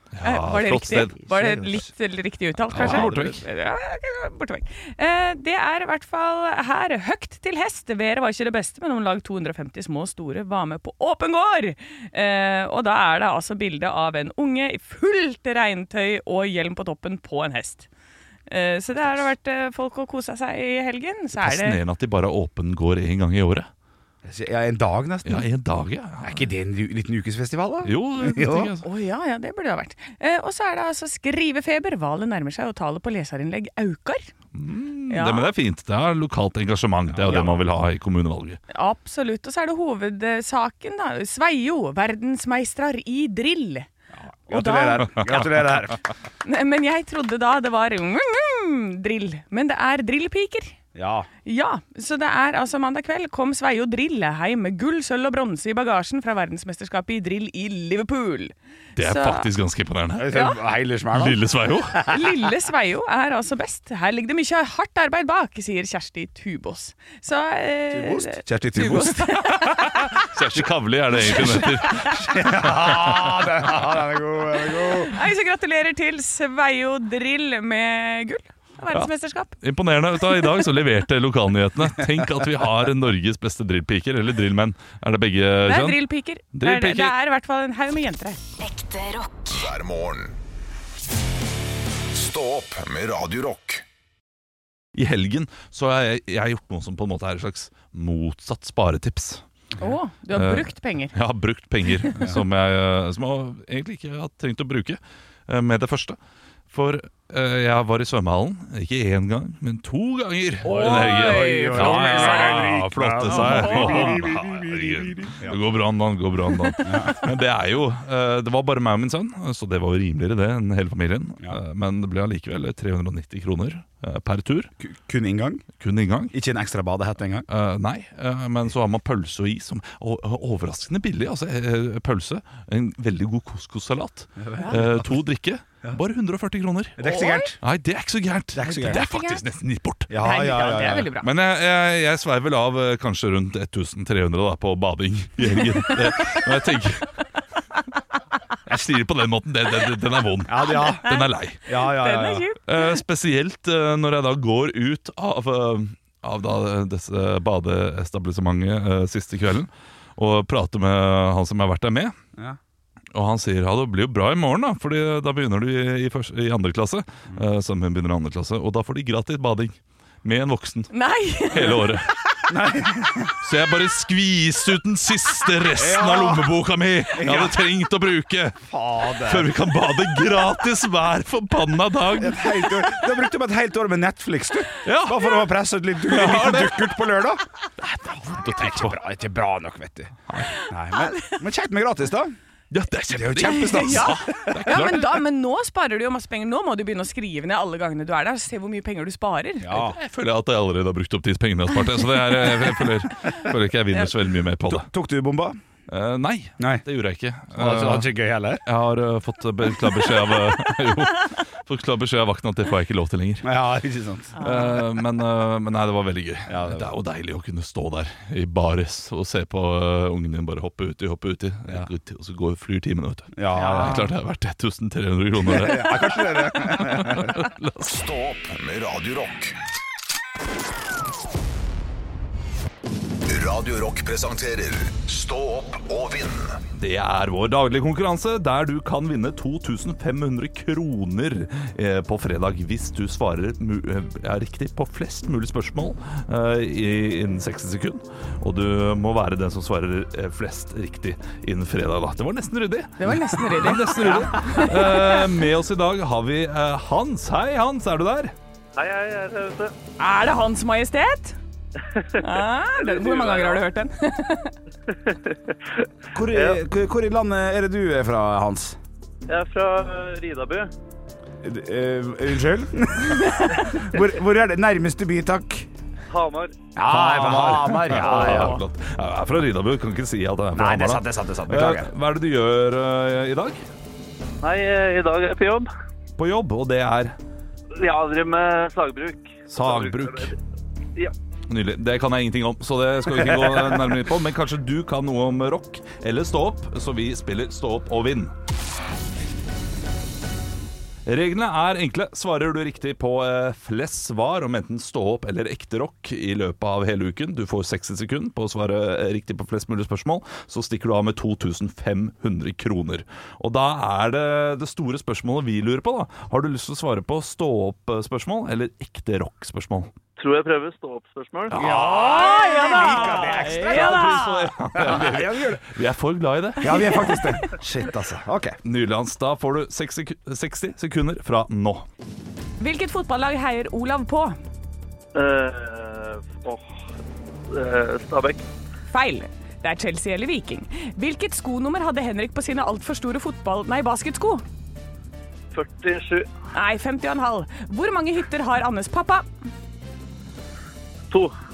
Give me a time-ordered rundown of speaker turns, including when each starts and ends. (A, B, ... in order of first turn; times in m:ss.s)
0:00.1-0:01.1 A
0:00.2-0:17.9 B
0:00.9-0:01.9 C
0:02.7-0:03.4 A
0:02.7-0:03.3 C
0:18.5-0:21.8 B
0:21.4-0:23.7 A
0:24.2-0:25.5 C
0:25.2-0:26.5 A
0:26.2-0:28.8 C
0:27.8-0:28.8 A
0:28.8-0:34.3 B
0:34.5-0:38.6 A
0:35.1-0:35.5 B
0:37.1-0:37.6 C
0:38.7-0:43.9 B
0:44.1-0:46.0 C
0:44.5-0:45.2 B
0:46.4-0:50.8 B
0:50.9-0:51.3 C
0:51.4-0:59.5 B
0:59.0-1:00.4 A
1:00.2-1:02.4 C
1:00.3-1:00.6 B
1:01.1-1:02.0 A
1:02.1-1:10.3 B
1:07.9-1:09.2 C
1:08.8-1:13.6 A
1:11.2-1:12.2 B
1:11.2-1:15.2 C
1:14.6-1:19.5 B
1:19.6-1:26.0 A
1:20.2-1:20.7 B
1:25.6-1:28.4 B
1:26.5-1:27.1 A
1:28.6-1:30.4 D
1:32.1-1:33.8 D
1:34.9-1:39.4 A
1:39.8-1:41.1 B
1:40.3-1:46.2 A
1:41.9-1:42.4 B
1:46.7-2:04.7 A
1:50.6-1:54.3 B
1:50.6-1:55.6 C
1:56.8-1:57.3 C
2:04.8-2:05.6 C
2:05.8-2:06.3 A
2:06.3-2:07.5 C
2:07.5-2:17.0 A
2:14.4-2:15.0 C
2:17.0-2:17.6 C
2:17.0-2:17.6 B
2:17.6-2:20.1 A
2:18.6-2:19.0 C
2:18.8-2:19.4 B
2:20.1-2:21.1 C
2:20.2-2:21.3 B
2:21.2-2:27.2 A
2:25.4-2:26.4 B
2:28.6-2:31.6 A
2:30.5-2:31.1 C
2:30.6-2:33.0 B
2:31.6-2:32.5 C
2:32.6-2:42.1 A
2:43.1-2:50.9 A
2:50.9-2:52.0 B
2:51.4-2:52.1 A
2:52.5-2:53.4 C
2:53.4-2:58.6 A
2:55.7-2:56.6 C
2:57.1-2:57.6 C
2:58.6-2:59.5 C
2:59.2-3:02.9 A
3:02.1-3:07.4 C
3:04.8-3:05.4 A
3:06.1-3:06.9 A
3:07.8-3:09.0 A
3:08.4-3:12.4 C
3:10.3-3:10.6 A
3:10.6-3:11.3 B
3:12.7-3:15.2 A
3:13.1-3:15.0 C
3:13.4-3:19.7 B
3:19.6-3:20.0 C
3:19.7-3:24.9 A
3:24.6-3:25.6 C
3:25.9-3:28.1 A
3:26.6-3:26.8 C
3:27.5-3:28.6 C
3:28.6-3:33.5 A
3:33.4-3:34.4 C
3:34.4-3:34.8 B
3:34.4-3:47.9 A
3:36.5-3:36.9 C
3:43.4-3:44.1 C
3:43.6-3:44.0 B
3:45.4-3:47.4 C
3:47.8-3:49.6 D
3:53.3-3:56.6 D
3:56.7-4:18.3 A
4:13.0-4:15.4 B
4:13.9-4:14.6 C
4:18.8-4:19.7 E
4:20.0-4:21.4 B
4:21.9-4:23.6 E
4:22.2-4:24.5 B
4:24.9-4:26.6 E
4:26.1-4:28.8 C
4:29.3-4:30.7 E
4:31.4-4:35.7 C
4:36.1-4:36.5 E
4:36.8-4:38.6 C
4:36.8-4:43.6 A
4:38.3-4:38.6 B
4:40.5-4:41.9 C
4:44.4-4:45.7 E
4:46.2-4:47.1 A
4:47.8-4:50.4 E
4:49.5-4:50.3 A
4:51.5-4:58.3 A
4:53.2-4:53.6 C
5:01.1-5:19.9 A
5:20.2-5:21.6 E
5:21.5-5:22.0 A
5:21.6-5:25.7 C
5:21.6-5:25.0 B
5:23.0-5:27.2 A
5:26.6-5:28.6 C
5:26.7-5:27.4 B
5:28.6-5:31.9 A
5:32.6-5:34.4 B
5:35.1-5:36.7 E
5:37.5-5:38.4 E
5:38.9-5:44.4 B
5:45.5-5:46.3 E
5:46.5-5:49.2 B